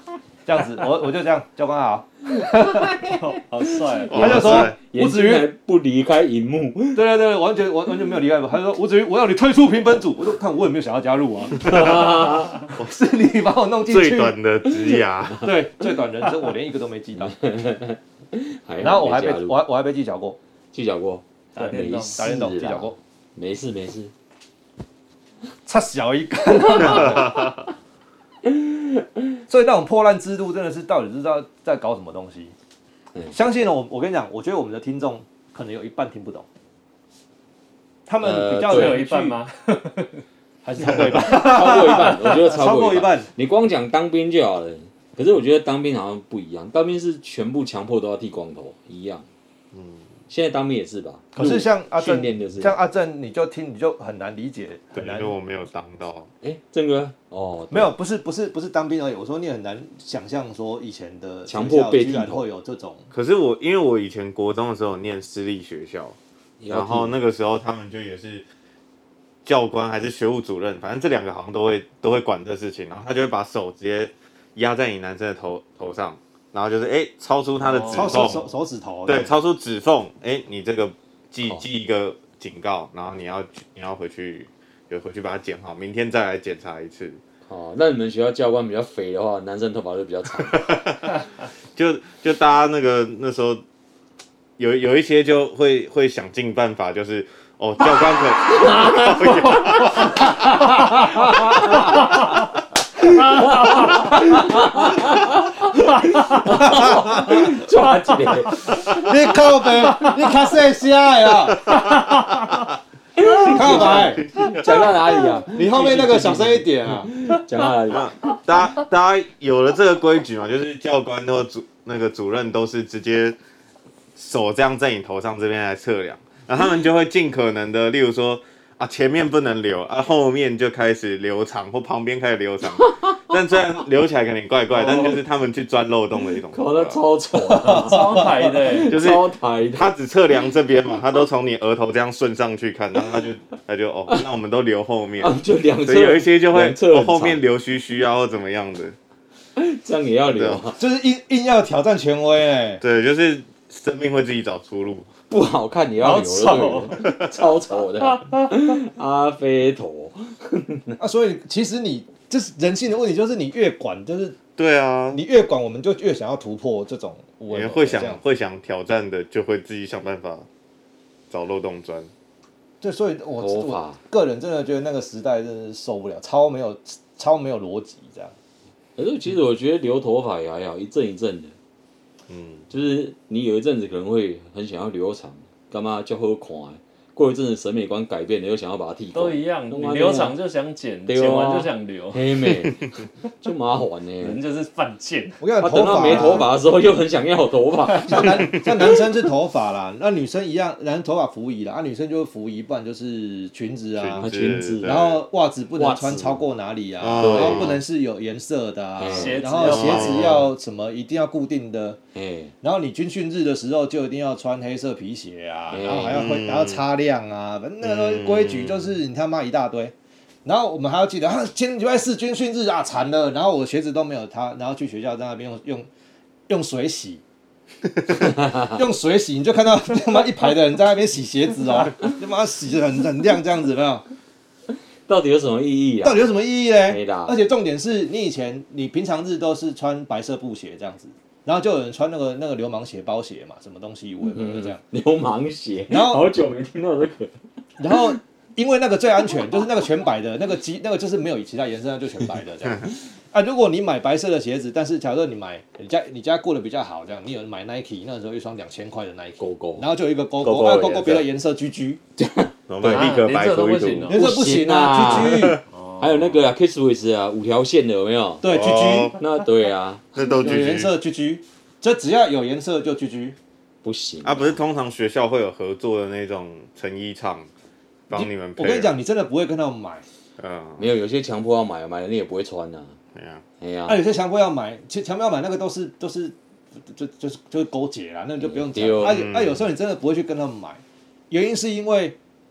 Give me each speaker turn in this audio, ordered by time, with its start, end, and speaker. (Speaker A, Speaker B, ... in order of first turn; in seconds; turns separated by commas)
Speaker A: 0.5-3.0, Speaker B: 2.7-3.2, Speaker C: 3.1-4.5, Speaker B: 3.8-7.0, Speaker D: 4.1-4.8, Speaker A: 4.1-5.5, Speaker A: 7.0-14.4, Speaker B: 11.6-12.6, Speaker D: 13.9-15.5, Speaker A: 15.4-17.3, Speaker B: 17.2-19.6, Speaker A: 18.8-20.4, Speaker B: 20.7-24.1, Speaker C: 21.6-22.2, Speaker A: 21.6-23.0, Speaker A: 25.7-27.5, Speaker D: 26.8-27.5, Speaker B: 28.4-29.2, Speaker A: 29.5-32.5, Speaker A: 33.3-36.5, Speaker A: 38.1-39.4, Speaker B: 38.2-39.0, Speaker C: 38.6-40.2, Speaker A: 40.6-43.3, Speaker B: 41.0-49.2, Speaker D: 49.7-50.1, Speaker B: 50.3-52.8, Speaker A: 51.4-55.4, Speaker D: 54.9-56.3, Speaker B: 56.4-57.9, Speaker A: 57.7-63.1, Speaker B: 61.5-62.5, Speaker D: 63.1-66.2, Speaker B: 66.6-67.1, Speaker D: 66.7-68.5, Speaker D: 69.5-78.5, Speaker C: 77.6-78.3, Speaker A: 77.9-79.3, Speaker D: 79.1-87.2, Speaker B: 87.5-90.6, Speaker D: 90.4-93.6, Speaker D: 94.6-100.5, Speaker B: 98.5-102.2, Speaker D: 101.0-101.4, Speaker B: 103.0-109.4, Speaker C: 103.4-104.1, Speaker C: 106.0-106.4, Speaker A: 106.4-107.6, Speaker A: 108.8-112.6, Speaker D: 111.7-112.0, Speaker B: 113.2-118.1, Speaker A: 113.4-114.3, Speaker D: 113.5-114.9, Speaker A: 115.5-117.1, Speaker D: 117.9-123.4, Speaker D: 124.2-137.0, Speaker C: 134.7-135.2, Speaker B: 136.5-139.9, Speaker A: 137.5-138.3, Speaker C: 137.7-138.9, Speaker D: 138.9-149.0, Speaker B: 145.2-147.4, Speaker B: 149.6-150.8, Speaker D: 150.3-150.6, Speaker A: 150.8-152.8, Speaker D: 152.8-155.1, Speaker B: 155.3-161.0, Speaker C: 156.0-157.1, Speaker D: 157.0-157.3, Speaker C: 157.7-158.8, Speaker A: 161.0-164.4, Speaker D: 164.6-165.2, Speaker A: 165.1-168.2, Speaker D: 167.5-170.5, Speaker D: 171.3-172.1, Speaker A: 172.8-178.3, Speaker B: 173.4-174.0, Speaker B: 179.0-181.6, Speaker D: 182.3-182.7, Speaker B: 182.7-190.4, Speaker C: 189.1-192.7, Speaker B: 191.1-194.4, Speaker C: 194.2-195.4, Speaker A: 195.4-196.5, Speaker B: 195.6-198.7, Speaker A: 198.1-204.2, Speaker D: 204.0-205.2, Speaker B: 204.2-205.0, Speaker A: 204.8-212.0, Speaker B: 205.8-206.4, Speaker D: 207.0-207.8, Speaker B: 207.2-207.8, Speaker B: 209.0-210.0, Speaker C: 209.1-210.4, Speaker D: 209.6-210.5, Speaker B: 212.1-212.5, Speaker A: 212.6-219.9, Speaker B: 215.7-216.2, Speaker D: 216.1-216.8, Speaker D: 217.8-218.9, Speaker A: 220.4-225.9, Speaker A: 226.5-227.2, Speaker A: 228.1-234.0, Speaker B: 235.1-236.3, Speaker A: 236.0-244.8, Speaker B: 236.9-237.4, Speaker B: 244.3-247.3, Speaker A: 245.9-246.2, Speaker A: 247.8-262.0, Speaker B: 259.4-259.9, Speaker D: 260.4-261.2, Speaker B: 262.2-263.2, Speaker D: 262.7-264.2, Speaker C: 262.8-264.2, Speaker A: 264.1-265.6, Speaker B: 264.1-268.5, Speaker C: 265.7-266.4, Speaker A: 268.4-269.2, Speaker D: 268.4-269.2, Speaker B: 269.2-270.0, Speaker D: 270.1-270.9, Speaker A: 270.4-273.4, Speaker B: 273.8-274.6, Speaker D: 274.2-277.5, Speaker D: 278.1-278.9, Speaker A: 278.1-280.0, Speaker D: 280.4-280.9, Speaker B: 280.8-282.9, Speaker D: 283.1-283.4, Speaker B: 283.6-284.0, Speaker A: 283.9-292.2, Speaker B: 288.4-289.2, Speaker D: 289.0-289.6